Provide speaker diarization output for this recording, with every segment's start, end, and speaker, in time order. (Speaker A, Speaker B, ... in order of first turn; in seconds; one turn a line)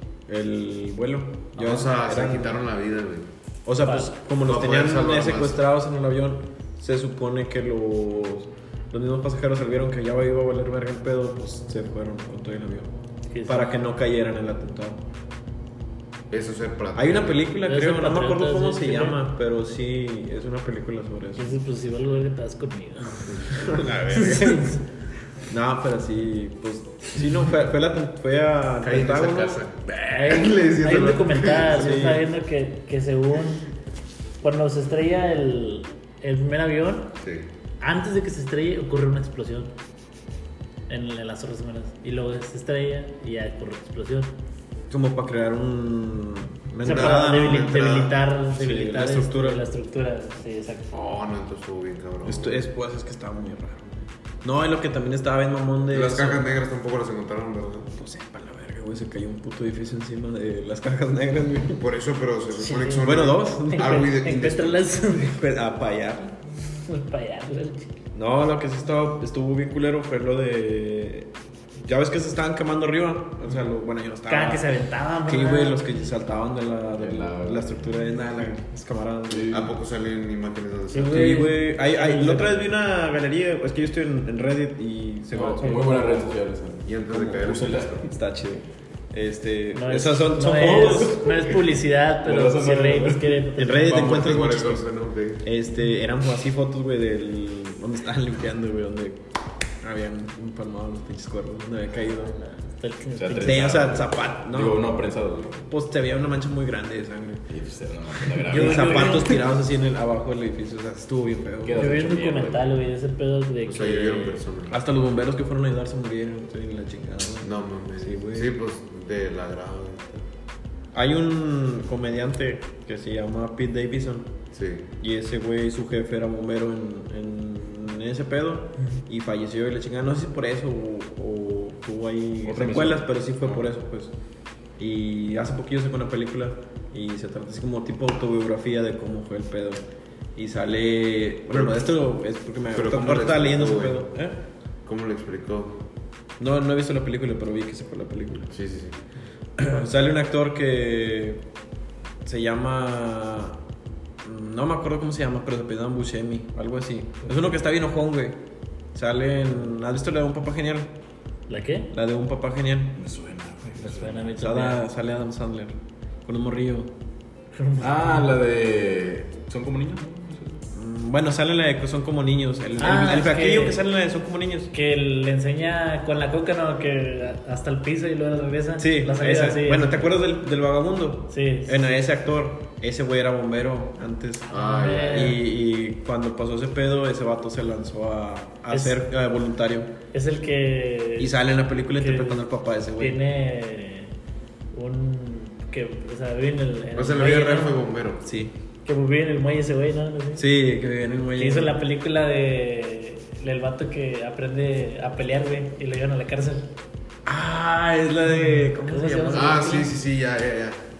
Speaker A: 0.3-2.6
Speaker B: 1.6-3.3
Speaker A: 3.6-12.9
Speaker C: 3.8-4.1
Speaker B: 4.4-5.6
Speaker C: 13.3-13.7
Speaker A: 13.5-15.0
Speaker B: 16.3-17.5
Speaker A: 16.9-21.6
Speaker C: 17.6-19.2
Speaker C: 21.4-24.8
Speaker A: 23.5-24.8
Speaker A: 25.5-29.6
Speaker B: 28.8-31.8
Speaker C: 29.9-33.7
Speaker A: 31.6-32.3
Speaker C: 34.4-37.1
Speaker B: 37.2-37.5
Speaker C: 37.8-39.7
Speaker C: 40.9-44.3
Speaker A: 44.9-47.7
Speaker B: 46.8-48.2
Speaker C: 46.8-50.9
Speaker A: 48.5-49.6
Speaker B: 50.9-52.6
Speaker A: 52.2-56.5
Speaker B: 55.9-57.9
Speaker A: 57.9-61.8
Speaker B: 61.8-65.0
Speaker C: 62.6-65.3
Speaker A: 63.0-64.0
Speaker A: 65.1-66.4
Speaker C: 66.9-68.0
Speaker A: 68.1-74.7
Speaker C: 74.3-75.8
Speaker A: 75.3-79.6
Speaker D: 77.0-77.8
Speaker D: 79.3-79.7
Speaker B: 79.5-81.4
Speaker C: 80.9-82.7
Speaker A: 81.1-86.3
Speaker D: 85.3-88.1
Speaker B: 86.8-88.0
Speaker A: 87.2-91.3
Speaker C: 89.7-94.3
Speaker D: 90.5-91.6
Speaker D: 92.2-93.5
Speaker A: 93.6-94.8
Speaker B: 93.8-95.5
Speaker A: 95.4-99.2
Speaker A: 99.8-102.4
Speaker C: 102.3-103.9
Speaker D: 103.2-105.7
Speaker A: 103.3-105.0
Speaker A: 105.7-107.5
Speaker D: 107.5-109.4
Speaker A: 108.2-111.9
Speaker C: 108.5-109.4
Speaker D: 111.6-112.7
Speaker C: 111.8-114.4
Speaker B: 113.6-114.8
Speaker A: 114.7-118.5
Speaker B: 117.4-120.3
Speaker A: 120.9-124.3
Speaker B: 124.5-124.8
Speaker A: 125.0-134.1
Speaker D: 132.4-133.6
Speaker A: 134.8-139.8
Speaker A: 140.3-144.4
Speaker B: 141.5-141.9
Speaker B: 142.7-144.0
Speaker B: 144.8-145.8
Speaker A: 146.4-148.5
Speaker B: 148.5-149.0
Speaker A: 149.6-151.4
Speaker A: 152.2-153.6
Speaker A: 154.2-158.4
Speaker A: 158.9-160.9
Speaker C: 161.5-161.9
Speaker A: 161.9-162.9
Speaker D: 163.0-164.3
Speaker C: 163.8-164.8
Speaker A: 164.3-166.9
Speaker C: 167.5-168.3
Speaker D: 167.8-170.6
Speaker A: 170.7-174.7
Speaker C: 172.8-173.8
Speaker C: 174.7-180.0
Speaker A: 178.8-189.9
Speaker C: 181.3-181.8
Speaker C: 184.5-185.4
Speaker B: 184.5-185.3
Speaker C: 188.7-189.1
Speaker C: 190.1-191.4
Speaker A: 191.2-193.2
Speaker C: 191.9-192.4
Speaker C: 193.0-194.1
Speaker C: 194.7-197.8
Speaker B: 196.9-198.2
Speaker A: 198.2-198.5
Speaker C: 198.8-200.5
Speaker A: 200.4-201.8
Speaker C: 201.4-206.7
Speaker A: 207.3-209.9
Speaker C: 208.8-209.9
Speaker B: 209.3-210.9